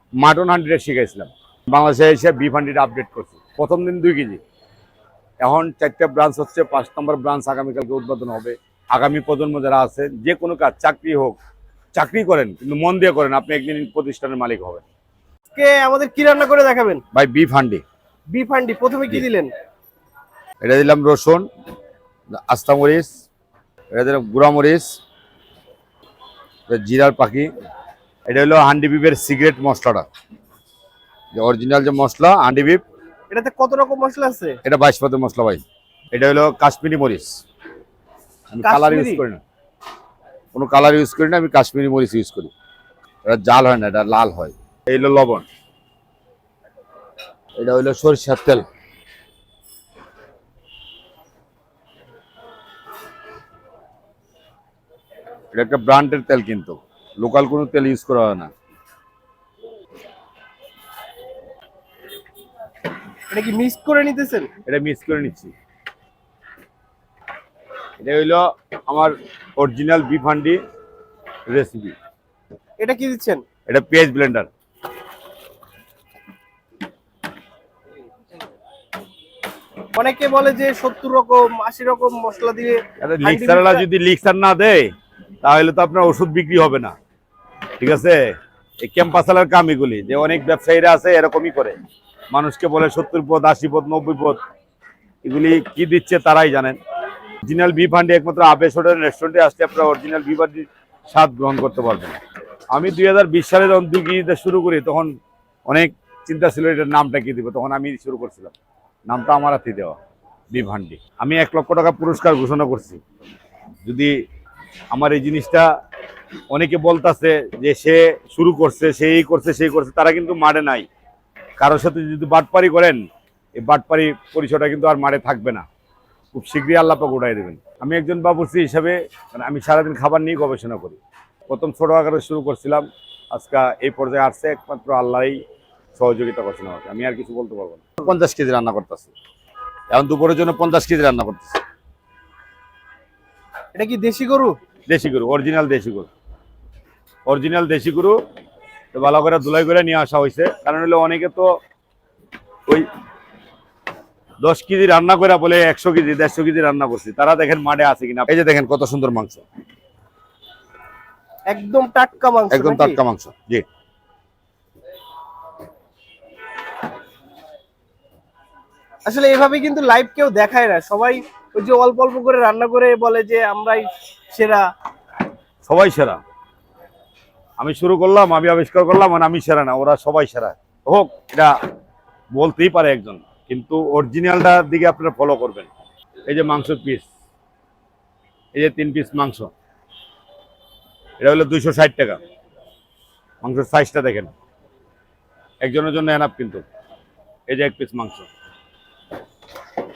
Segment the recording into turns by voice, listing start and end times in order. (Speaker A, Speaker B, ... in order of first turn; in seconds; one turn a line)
Speaker A: 0.2-4.4
Speaker A: 5.4-11.4
Speaker A: 11.9-14.8
Speaker B: 15.5-17.0
Speaker A: 17.1-17.8
Speaker B: 18.3-19.5
Speaker A: 20.6-21.5
Speaker A: 22.3-23.1
Speaker A: 23.9-25.0
Speaker A: 26.7-27.5
Speaker A: 28.3-30.1
Speaker A: 31.4-32.8
Speaker B: 33.3-34.6
Speaker A: 34.6-37.4
Speaker A: 38.5-39.4
Speaker B: 38.6-39.2
Speaker A: 40.5-42.5
Speaker A: 43.2-45.5
Speaker A: 47.6-48.7
Speaker A: 55.5-58.5
Speaker B: 63.3-64.5
Speaker A: 64.7-65.5
Speaker A: 68.0-70.6
Speaker A: 71.5-72.0
Speaker B: 72.8-73.4
Speaker A: 73.7-74.5
Speaker B: 80.0-83.9
Speaker A: 83.0-84.9
Speaker A: 85.4-87.0
Speaker A: 87.8-91.8
Speaker A: 92.3-94.4
Speaker A: 95.2-96.8
Speaker A: 97.5-102.2
Speaker A: 102.7-105.2
Speaker A: 105.7-108.5
Speaker A: 109.1-110.0
Speaker A: 110.5-113.0
Speaker A: 113.9-114.2
Speaker A: 114.9-115.7
Speaker A: 116.5-120.9
Speaker A: 121.6-125.7
Speaker A: 126.3-135.4
Speaker A: 136.0-139.1
Speaker A: 139.9-141.6
Speaker B: 143.8-144.6
Speaker A: 144.9-146.1
Speaker A: 147.3-148.2
Speaker A: 148.9-151.5
Speaker A: 154.4-159.4
Speaker B: 161.5-163.0
Speaker A: 162.5-163.7
Speaker B: 169.1-174.6
Speaker A: 175.7-176.2
Speaker A: 177.6-181.5
Speaker A: 182.3-185.7
Speaker A: 186.3-187.1
Speaker A: 188.6-189.5
Speaker A: 191.2-192.2
Speaker A: 193.4-194.3
Speaker A: 195.6-196.7
Speaker A: 197.5-198.3